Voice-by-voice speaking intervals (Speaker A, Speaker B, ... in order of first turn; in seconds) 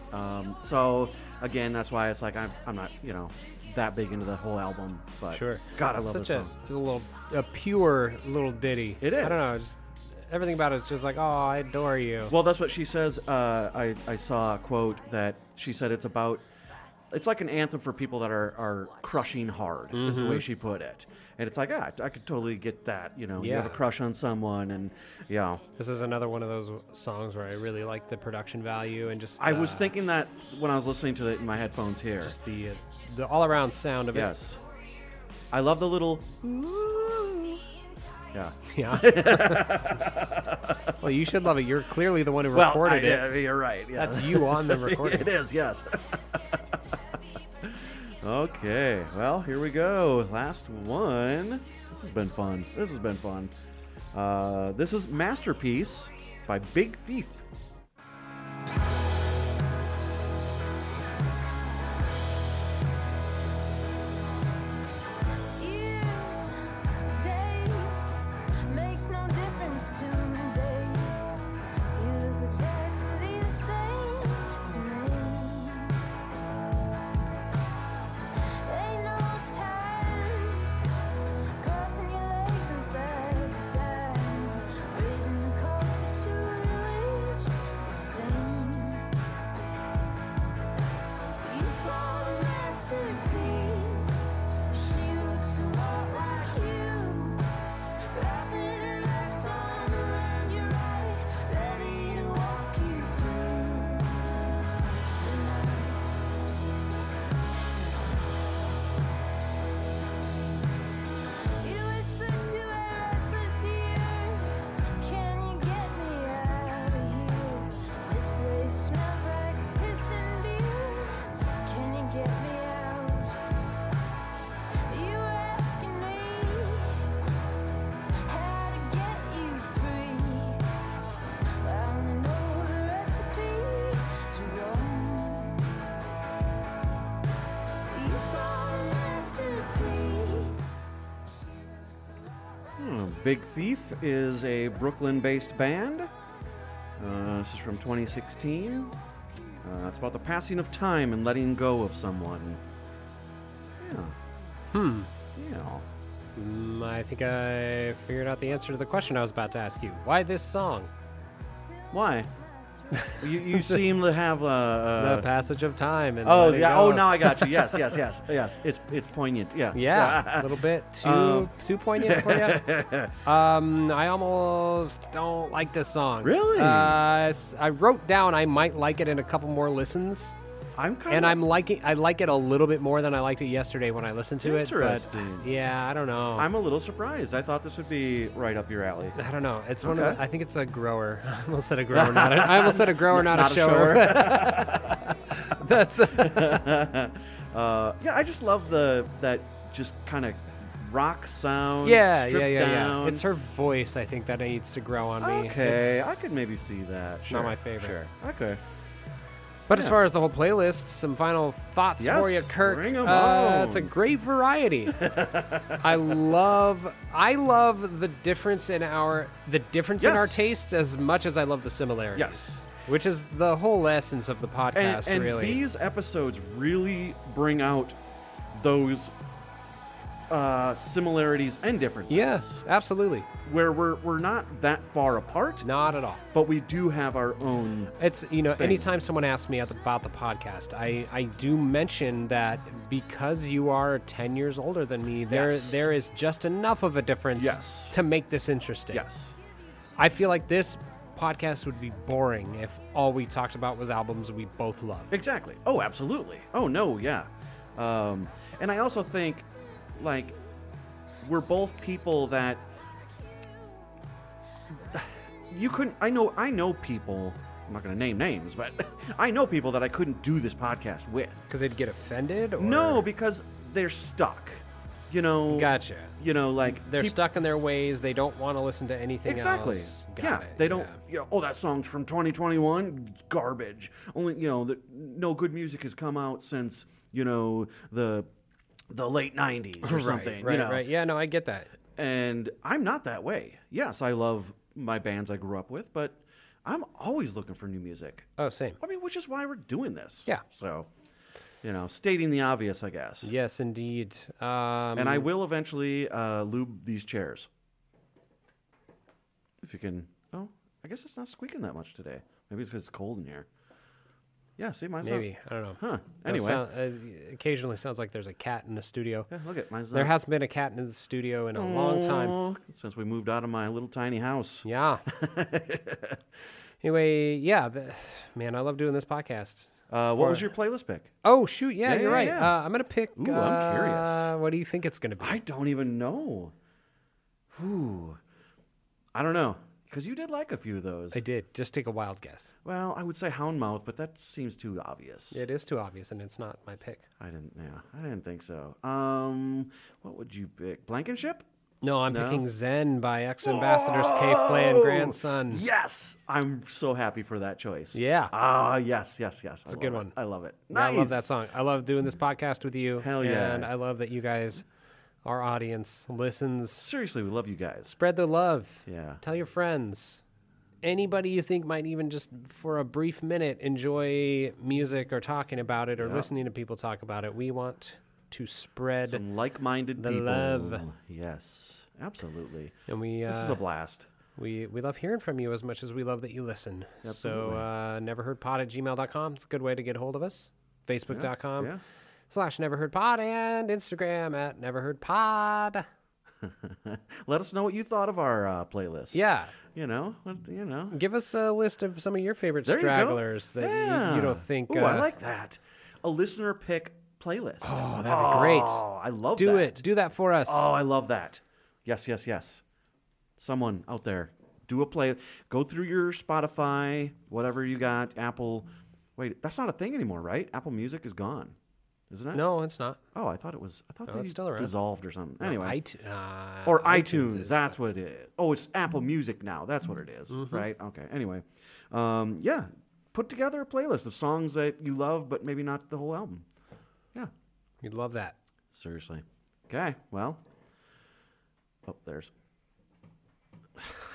Speaker A: 0.1-6.5, 9.0-9.5, 12.3-16.4, 17.1-25.6, 29.4-32.4, 34.1-34.6, 35.5-37.6, 38.3-40.9, 42.5-47.0, 47.6-53.5, 54.1-57.4, 142.8-146.1, 147.0-148.9, 149.6-152.6, 153.8-154.2, 155.3-155.8, 161.9-162.3, 163.2-165.3, 166.2-173.2, 176.2-177.0, 180.8-181.4, 184.4-185.5, 186.3-189.2, 189.8-190.2, 191.9-195.2, 196.1-203.2, 205.2-208.6, 209.7-210.0, 212.0-213.9, 214.9-216.2, 220.0-220.5, 222.1-222.7, 224.7-228.0, 228.5-229.1, 230.3-232.6, 233.4-235.7, 236.3-238.9, 245.3-245.9, 247.3-248.0, 248.9-249.4, 255.1-260.4, 261.2-262.6, 264.8-271.4, 272.6-277.2, 279.2-288.3, 288.9-290.9, 291.9-300.9, 301.6-303.3, 304.9-307.5, 309.6-313.5, 314.6-316.6, 319.3-320.2, 321.5-326.2, 329.9-331.1, 331.8-332.6, 333.1-334.3, 335.2-336.5, 337.5-338.2, 339.1-341.2, 342.6-345.4, 347.2-351.4, 352.1-352.4, 353.4-361.2, 363.0-363.7, 366.8-367.9, 368.9-369.2, 376.0-376.3, 379.0-384.1, 387.0-387.6, 391.1-391.8, 396.4-401.0, 402.6-409.9, 410.4-412.6, 413.4-421.6, 422.1-422.4, 423.1-425.8, 426.6-436.4, 438.7-440.4, 441.8-442.3
Speaker B: 5.3-12.3, 19.9-20.4, 23.4-23.8, 25.8-29.9, 32.2-34.3, 38.7-40.0, 41.0-43.4, 44.0-45.3, 154.7-155.1, 156.3-160.9, 162.9-163.9, 165.0-167.9, 169.7-172.6, 173.2-180.3, 181.1-186.5, 189.2-194.8, 195.3-196.6, 201.8-206.1, 207.3-208.0, 209.7-215.0, 215.8-225.6, 232.1-233.3, 235.6-236.2, 238.0-249.0, 250.0-255.1, 271.5-273.1, 275.5-281.0, 289.8-291.7, 298.4-298.8, 303.2-305.3, 315.0-319.3, 319.9-322.4, 324.6-325.0, 326.8-330.4, 331.2-335.4, 341.1-342.5, 345.3-347.0, 351.8-355.6, 357.9-358.3, 359.7-360.1, 360.7-364.6, 365.2-366.8, 367.9-370.2, 370.8-379.2, 380.0-380.8, 382.9-383.6, 384.4-391.7, 392.3-395.9, 399.1-399.5, 400.9-405.1, 407.6-408.8, 409.4-410.7, 422.3-423.0, 424.1-424.7, 425.4-427.8, 430.3-430.7, 437.8-438.4
Speaker C: 65.6-66.5, 67.2-71.2, 71.9-76.0, 78.6-80.7, 81.6-89.0, 91.4-97.4, 98.1-104.6, 105.2-106.2, 111.6-123.4, 124.9-127.1, 128.2-130.6, 131.6-135.6, 137.9-140.8